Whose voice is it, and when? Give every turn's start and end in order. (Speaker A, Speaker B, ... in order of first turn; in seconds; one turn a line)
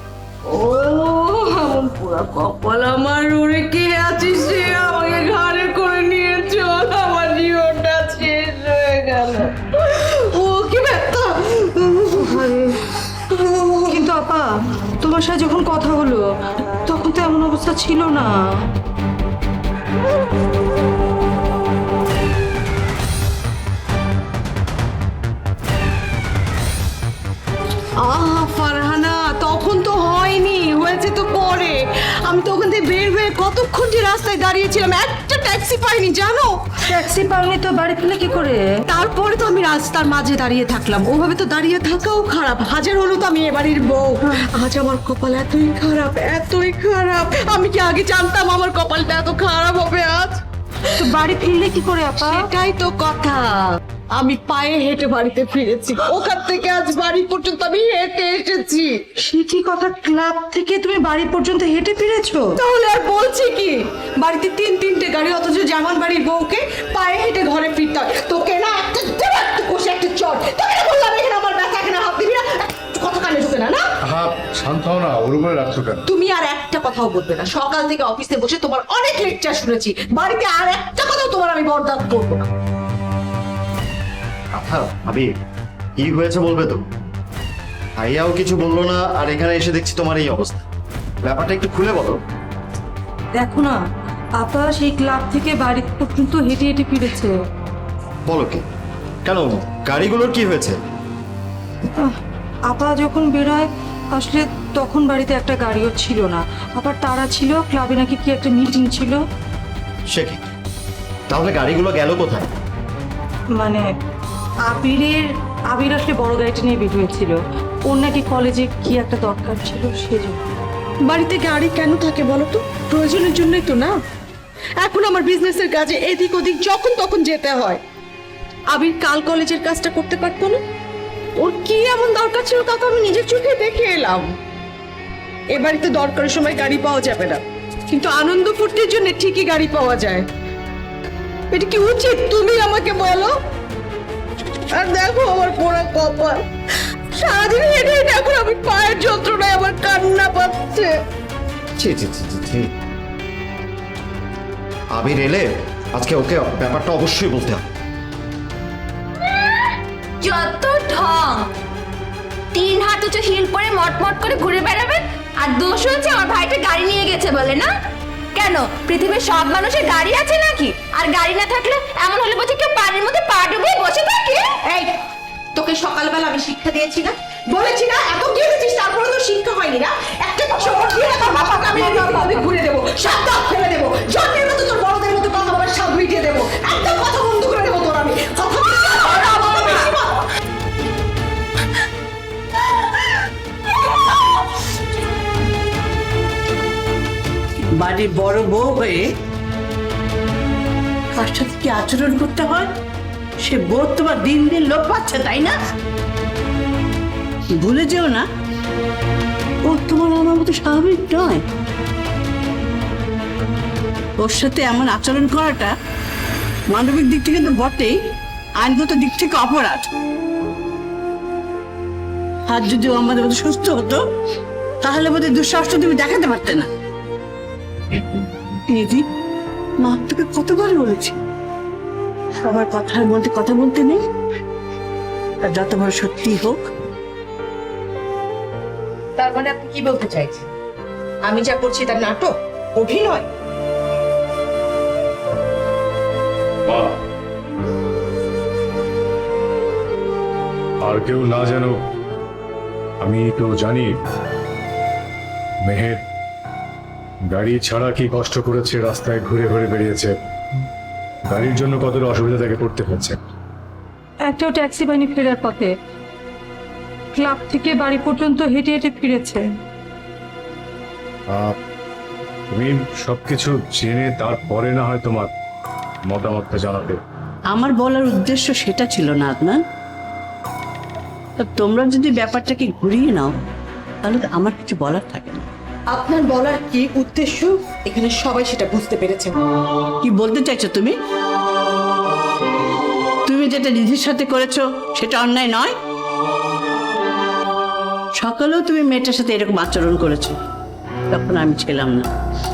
Speaker A: 0.5-9.5
Speaker B: 9.8-12.3
Speaker C: 12.1-12.9
Speaker B: 13.3-14.0
Speaker C: 13.9-14.5
Speaker C: 15.0-16.3
Speaker C: 16.9-18.3
Speaker B: 28.0-36.7
Speaker C: 36.9-38.6
Speaker B: 38.9-50.4
Speaker C: 50.9-52.5
Speaker B: 52.2-59.0
Speaker C: 59.2-62.6
Speaker B: 62.5-73.9
Speaker D: 74.0-76.1
Speaker B: 76.1-82.5
Speaker E: 84.5-85.3
Speaker E: 86.0-86.8
Speaker E: 88.0-90.6
Speaker E: 91.2-92.2
Speaker C: 93.4-93.8
Speaker C: 94.4-97.3
Speaker E: 98.3-98.6
Speaker E: 99.2-100.8
Speaker C: 102.7-109.2
Speaker E: 110.1-110.4
Speaker E: 111.3-112.5
Speaker C: 113.5-113.8
Speaker C: 114.6-120.4
Speaker B: 121.0-124.0
Speaker B: 124.8-127.8
Speaker B: 128.7-130.6
Speaker B: 131.3-134.3
Speaker B: 135.5-140.3
Speaker B: 141.5-143.4
Speaker B: 144.7-146.4
Speaker B: 147.1-151.0
Speaker E: 151.8-152.7
Speaker E: 154.9-157.6
Speaker F: 159.2-161.5
Speaker F: 162.5-167.7
Speaker F: 168.3-174.5
Speaker B: 174.7-190.3
Speaker C: 181.7-182.1
Speaker A: 197.8-199.1
Speaker A: 201.1-202.7
Speaker A: 203.4-205.6
Speaker A: 207.6-208.2
Speaker A: 209.6-211.4
Speaker A: 214.2-215.7
Speaker A: 216.7-218.0
Speaker A: 218.6-219.9
Speaker A: 222.5-224.0
Speaker A: 224.8-226.7
Speaker A: 228.7-229.0
Speaker A: 229.8-231.2
Speaker A: 232.4-234.0
Speaker A: 235.4-236.7
Speaker B: 239.2-240.5
Speaker B: 241.2-243.3
Speaker D: 246.7-247.0
Speaker D: 250.8-251.8
Speaker D: 253.0-254.0
Speaker D: 255.6-256.0
Speaker D: 257.2-260.1
Speaker D: 261.3-263.2
Speaker C: 264.2-265.7
Speaker C: 267.1-269.5
Speaker D: 271.3-271.6
Speaker D: 272.5-275.3
Speaker D: 276.1-277.0
Speaker A: 277.5-279.6
Speaker A: 281.4-283.3
Speaker A: 284.0-285.4
Speaker B: 285.9-289.4
Speaker A: 290.0-290.9
Speaker A: 293.2-295.7
Speaker A: 298.2-300.3
Speaker A: 301.1-302.1